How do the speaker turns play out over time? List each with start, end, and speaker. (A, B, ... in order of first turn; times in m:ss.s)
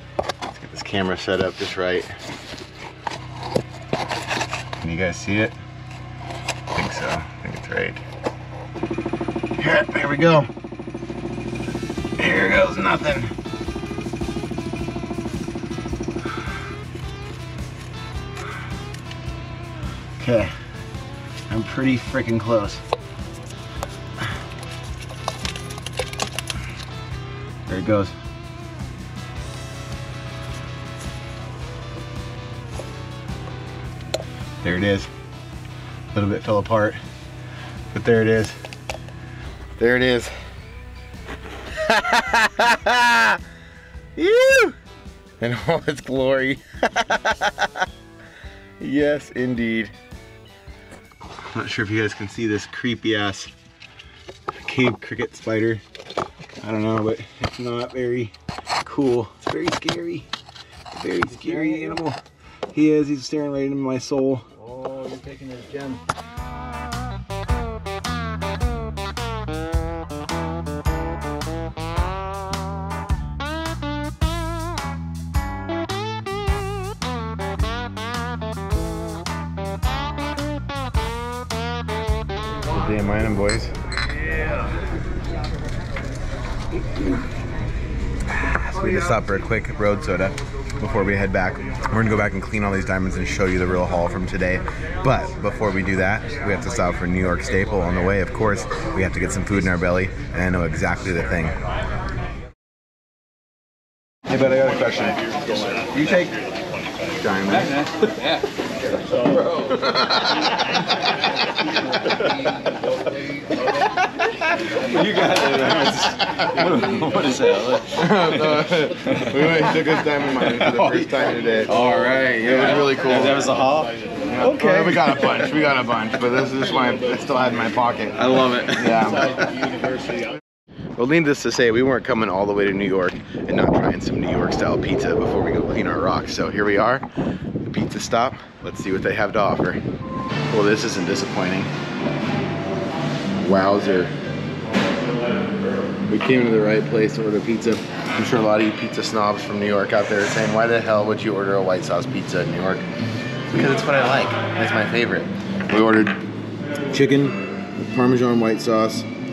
0:00.5-0:02.1 A
0:04.8-0:05.6 A
0:06.7-0:08.0 A
0:09.6-0:10.5 A
0:12.2-0:13.3 A
0:20.2-0:20.5 A
0:21.5-0:22.8 A
0:27.7-0:28.2 A
0:34.6-0:35.1 A
0:36.1-0:37.0 A
0:37.9-0:38.6 A
0:39.8-0:40.3 A
0:41.7-0:43.4 A
0:44.2-0:44.8 A
0:45.4-0:47.8 A
0:48.8-0:49.9 A
0:51.4-0:53.5 A
0:54.6-0:55.8 A
0:56.6-1:00.3 A
1:00.9-1:02.2 A
1:01.3-1:02.0 B
1:02.7-1:04.4 A
1:04.6-1:06.0 B
1:22.7-1:23.7 A
1:24.2-1:24.8 B
1:28.3-1:41.6 A
1:44.3-1:46.4 A
1:47.1-1:48.0 A
1:49.4-1:50.6 A
1:55.0-1:57.9 C
1:57.8-2:03.6 A
2:01.9-2:02.2 C
2:03.4-2:03.9 C
2:04.3-2:10.2 A
2:11.0-2:17.1 A
2:17.6-2:19.8 A
2:20.5-2:21.7 A
2:23.4-2:24.1 A
2:26.1-2:32.9 A
2:33.5-2:36.2 A
2:36.9-2:39.1 A